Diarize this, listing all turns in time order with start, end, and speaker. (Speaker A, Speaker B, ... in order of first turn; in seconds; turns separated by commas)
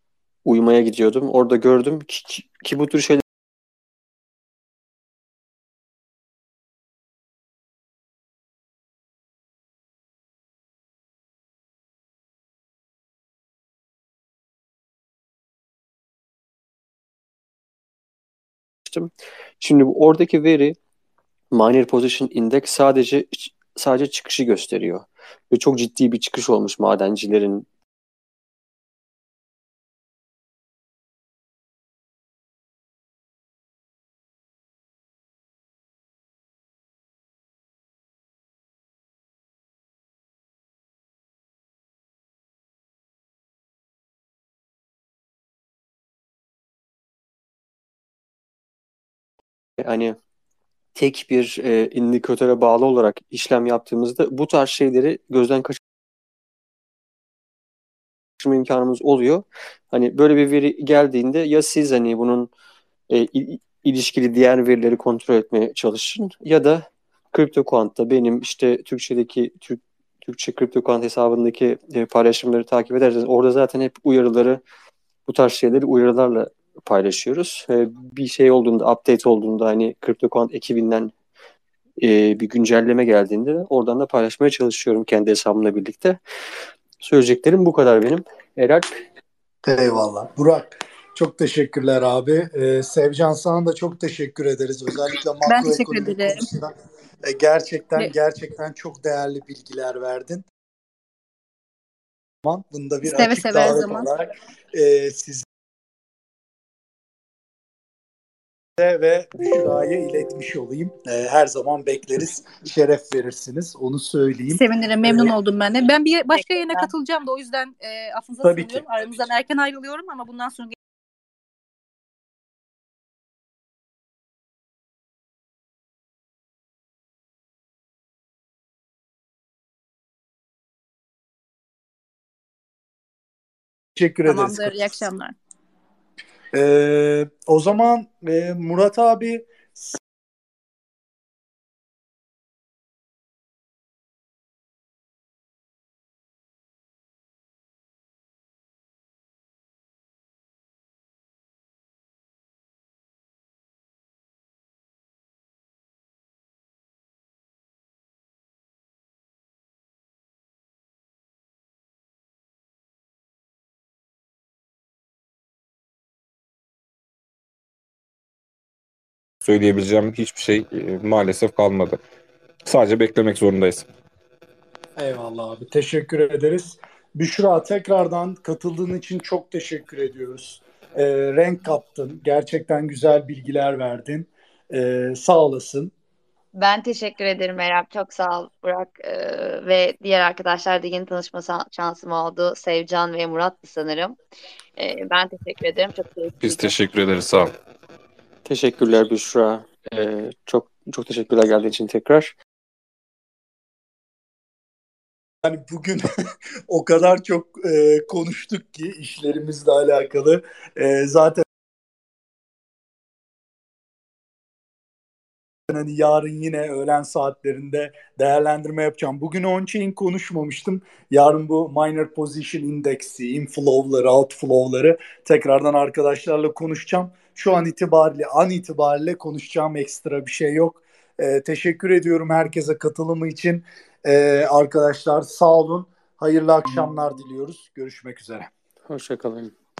Speaker A: 0.4-3.2, Speaker A: 18.9-20.8, Speaker A: 21.5-27.7, Speaker A: 49.8-50.2, Speaker A: 50.9-55.8, Speaker A: 58.4-62.5, Speaker A: 63.1-74.6, Speaker A: 75.2-81.1, Speaker A: 82.0-86.2, Speaker A: 87.0-89.0, Speaker B: 89.7-96.7, Speaker C: 95.4-96.5, Speaker B: 97.2-100.5, Speaker B: 102.4-105.5, Speaker C: 103.0-104.1, Speaker B: 108.8-115.3, Speaker C: 114.5-120.8, Speaker B: 118.4-118.8, Speaker B: 133.9-135.0, Speaker C: 134.2-135.3, Speaker B: 136.5-140.0, Speaker D: 169.4-172.0, Speaker D: 172.6-173.9, Speaker B: 174.9-185.9, Speaker E: 186.5-194.2, Speaker E: 194.8-196.7, Speaker D: 196.4-197.5, Speaker A: 198.4-202.3, Speaker B: 205.4-206.0, Speaker B: 206.7-211.4, Speaker B: 215.7-238.5, Speaker A: 238.9-239.5